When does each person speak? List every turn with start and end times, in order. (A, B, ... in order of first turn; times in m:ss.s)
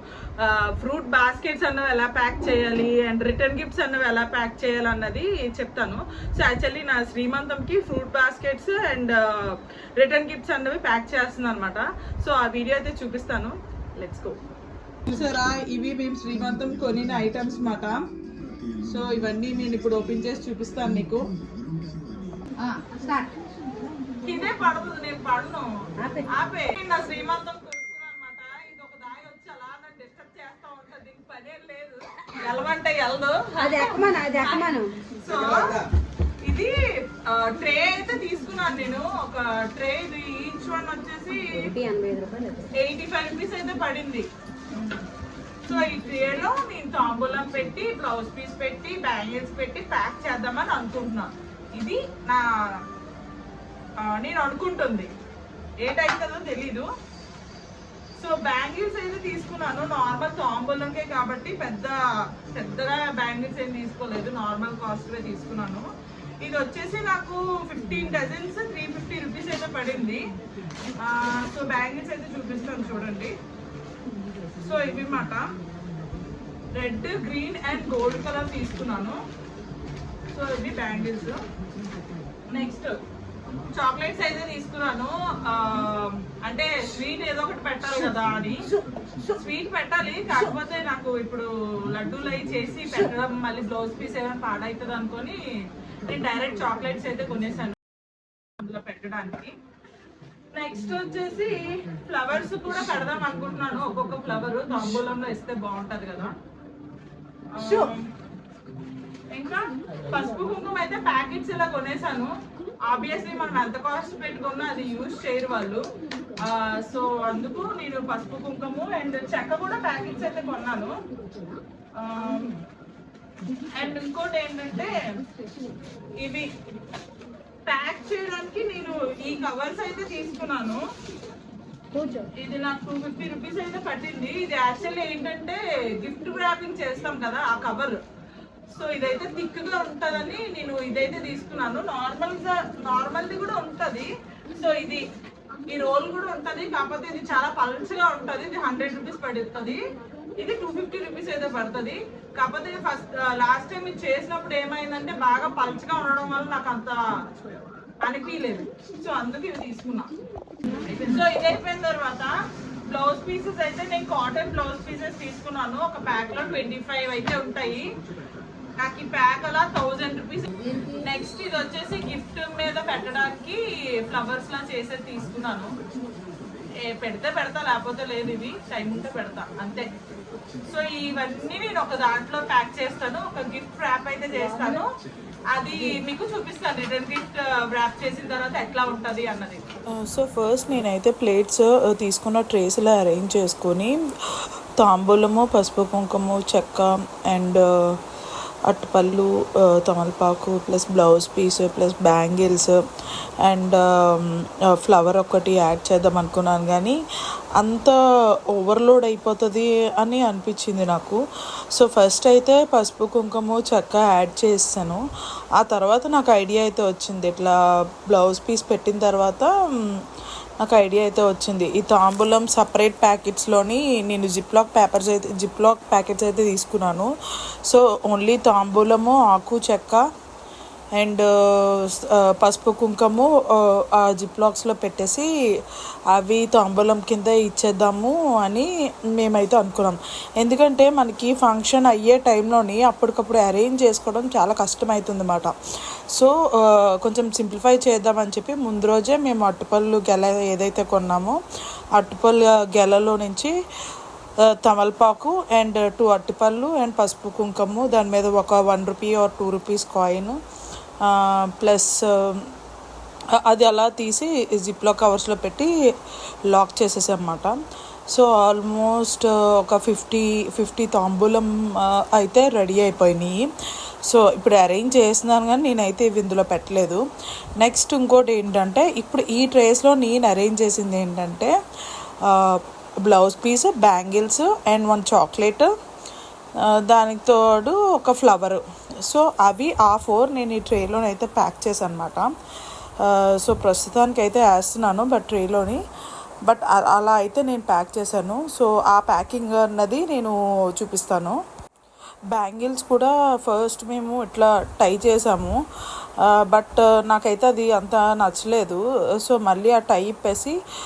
0:00.4-0:14.4 A
0:15.1-0:18.1 A
0:18.8-0:21.3 A
0:22.6-0:23.4 B
0:24.2-0:25.7 A
0:26.0-0:26.3 B
0:26.3-0:35.9 A
0:33.6-0:35.1 B
0:36.4-0:41.7 A
0:41.4-0:42.7 B
0:42.8-0:45.0 A
0:45.7-0:52.8 A
0:54.0-0:55.1 A
0:55.8-0:56.9 A
0:58.2-1:05.9 A
1:06.4-1:10.2 A
1:11.0-1:13.4 A
1:14.6-1:15.5 A
1:16.7-1:19.2 A
1:20.3-1:21.4 A
1:22.5-1:23.0 A
1:23.7-1:28.7 A
1:29.3-1:35.4 A
1:36.0-1:37.8 A
1:38.6-1:39.5 A
1:40.5-1:46.4 A
1:47.5-1:48.1 A
1:49.3-1:52.3 A
1:52.8-1:55.8 A
1:56.4-2:01.0 A
2:02.0-2:02.6 A
2:03.8-2:04.9 A
2:06.2-2:06.5 A
2:07.7-2:10.8 A
2:12.2-2:18.0 A
2:18.7-2:25.0 A
2:25.7-2:29.8 A
2:30.4-2:37.0 A
2:38.0-2:40.2 A
2:40.8-2:42.3 A
2:42.9-2:47.9 A
2:48.8-2:55.7 A
2:50.6-2:51.0 B
2:56.8-2:59.9 A
3:00.7-3:04.9 A
3:05.5-3:11.0 A
3:10.1-3:18.0 C
3:12.0-3:13.5 A
3:18.7-3:22.8 C
3:23.4-3:27.0 C
3:27.6-3:28.0 C
3:28.6-3:31.2 C
3:31.8-3:35.0 C
3:35.6-3:37.6 C
3:38.1-3:39.5 C
3:40.6-3:47.1 C
3:47.6-3:50.0 C
3:51.0-3:55.3 C
3:56.1-4:05.6 C
4:06.1-4:11.4 C
4:12.0-4:13.5 C
4:14.5-4:20.4 C
4:21.1-4:22.5 C
4:23.4-4:25.7 C
4:26.5-4:27.6 C
4:28.1-4:33.4 C
4:34.1-4:37.0 C
4:37.6-4:41.5 C
4:42.3-4:45.7 C
4:46.6-4:52.3 C
4:53.0-4:55.8 C
4:56.5-4:58.5 C
4:58.5-5:00.4 A
4:59.6-5:00.1 C
5:00.8-5:01.4 C
5:02.3-5:05.6 C
5:06.3-5:10.6 C